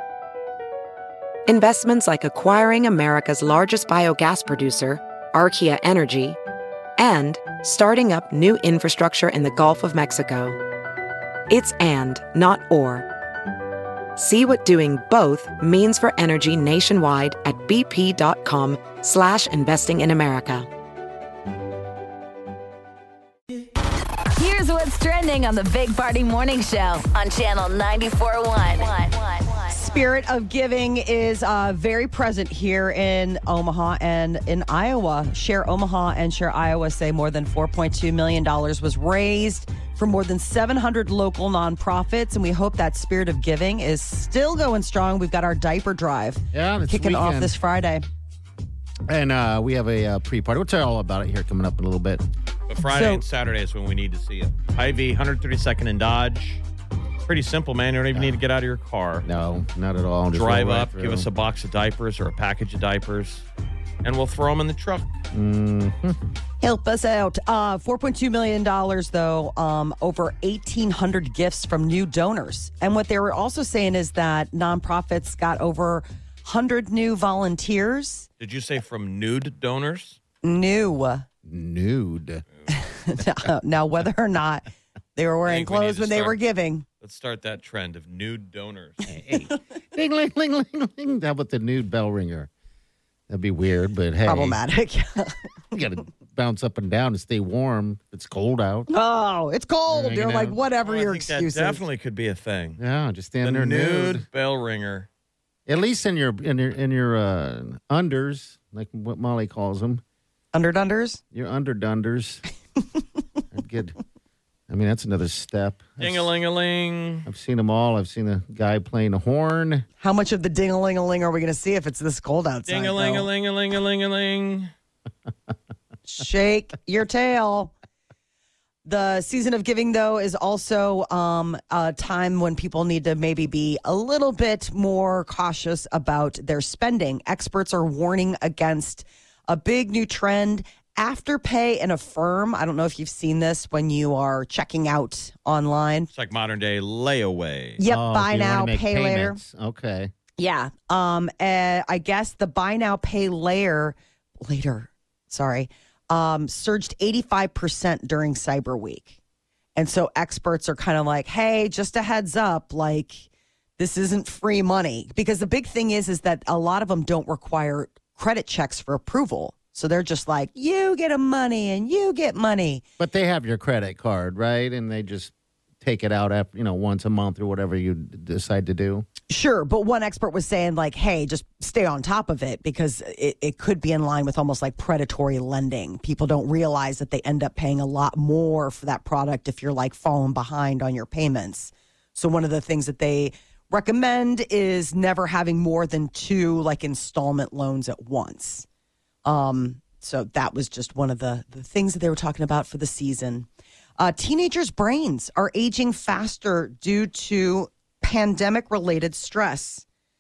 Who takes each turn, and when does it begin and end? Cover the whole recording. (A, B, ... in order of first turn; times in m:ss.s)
0:01.5-0:06.4 A
0:07.0-0:10.6 A
0:11.5-0:13.0 A
0:14.2-0:20.7 A
0:24.4-0:29.8 B
0:29.7-0:48.0 C
0:46.5-0:47.6 D
0:49.1-0:52.2 D
0:52.7-0:56.6 E
0:52.9-0:53.2 C
0:57.3-0:59.3 E
0:58.1-0:58.4 D
0:59.2-1:01.3 D
1:00.3-1:03.5 E
1:04.0-1:05.1 E
1:05.3-1:06.2 D
1:06.6-1:18.3 C
1:18.4-1:20.2 E
1:20.4-1:21.3 C
1:21.4-1:22.4 D
1:22.7-1:24.6 C
1:25.2-1:26.8 C
1:25.5-1:26.4 E
1:27.0-1:29.1 E
1:29.1-1:32.5 D
1:33.3-1:34.6 D
1:34.3-1:35.4 C
1:35.7-1:38.9 D
1:38.9-1:41.8 C
1:39.9-1:40.6 D
1:40.8-1:42.8 E
1:42.8-1:44.3 D
1:43.4-1:45.1 E
1:45.7-1:50.0 D
1:50.5-1:51.2 C
1:51.3-1:52.4 D
1:53.5-1:54.0 D
1:54.7-1:56.3 D
1:56.0-1:57.3 E
1:57.3-1:59.9 D
2:00.0-2:03.3 C
2:02.7-2:04.7 E
2:06.1-2:07.7 C
2:08.8-2:26.1 C
2:26.1-2:27.8 E
2:27.8-2:29.4 C
2:27.9-2:30.1 D
2:30.4-2:39.2 C
2:39.8-2:43.3 C
2:43.8-2:52.8 C
2:53.0-2:59.1 D
2:59.3-3:18.7 C
3:19.2-3:23.5 C
3:24.0-3:29.8 C